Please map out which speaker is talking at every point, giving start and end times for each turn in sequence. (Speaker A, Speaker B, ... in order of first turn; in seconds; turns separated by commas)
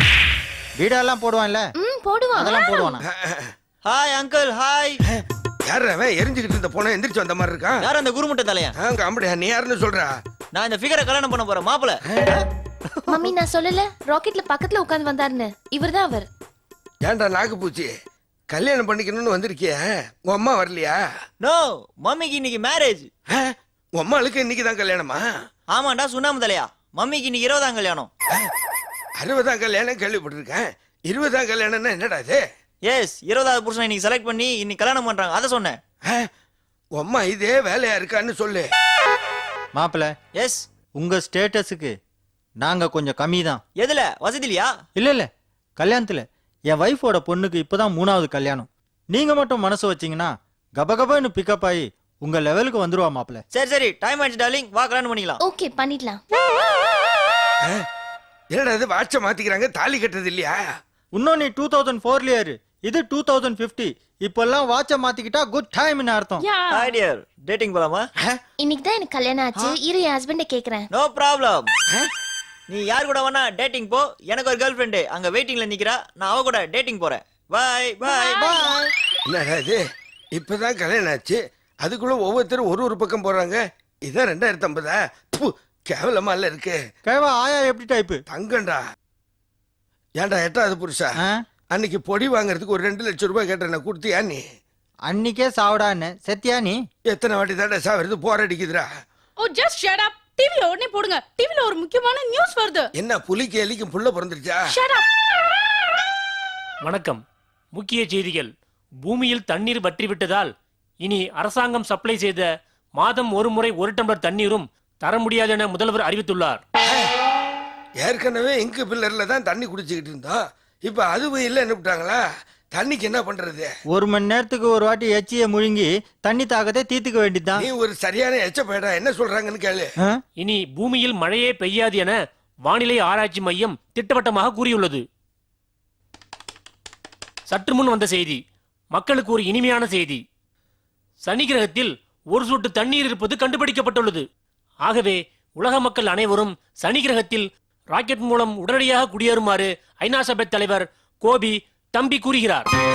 Speaker A: 0.8-1.7, Speaker B: 1.8-2.9, Speaker A: 2.4-3.0, Speaker C: 3.0-3.5, Speaker D: 3.8-5.0, Speaker C: 5.1-7.9, Speaker D: 7.8-8.7, Speaker C: 8.8-10.1, Speaker D: 10.5-12.4, Speaker C: 12.1-12.4, Speaker B: 13.1-16.3, Speaker C: 17.0-17.9, Speaker C: 18.5-21.0, Speaker D: 21.4-23.1, Speaker C: 23.3-25.3, Speaker D: 25.7-28.1, Speaker C: 29.2-32.4, Speaker D: 32.8-35.8, Speaker C: 37.0-38.7, Speaker A: 39.8-40.1, Speaker D: 40.4-40.7, Speaker A: 41.0-42.0, Speaker A: 42.6-43.6, Speaker D: 43.8-44.8, Speaker A: 45.0-53.4, Speaker D: 53.5-55.4, Speaker B: 55.4-56.2, Speaker C: 58.5-60.7, Speaker A: 61.1-66.4, Speaker E: 66.4-67.0, Speaker D: 66.7-68.1, Speaker B: 68.6-70.9, Speaker D: 70.9-71.7, Speaker D: 72.7-78.7, Speaker A: 78.4-78.9, Speaker C: 79.3-79.8, Speaker C: 80.3-86.8, Speaker A: 87.0-88.2, Speaker C: 88.3-88.8, Speaker C: 90.2-91.1, Speaker C: 91.7-94.4, Speaker A: 95.1-96.8, Speaker C: 97.1-98.9, Speaker E: 99.4-102.9, Speaker C: 103.0-104.6, Speaker E: 104.7-105.1, Speaker F: 106.9-107.2, Speaker F: 107.8-108.5, Speaker F: 109.0-110.5, Speaker F: 111.0-112.5, Speaker F: 113.0-116.6, Speaker C: 118.0-122.2, Speaker C: 122.7-123.7, Speaker A: 123.9-127.7, Speaker C: 127.6-129.9, Speaker F: 130.4-132.2, Speaker F: 132.7-135.0, Speaker F: 137.5-138.4, Speaker F: 138.9-140.2, Speaker F: 141.2-144.2, Speaker F: 144.8-152.7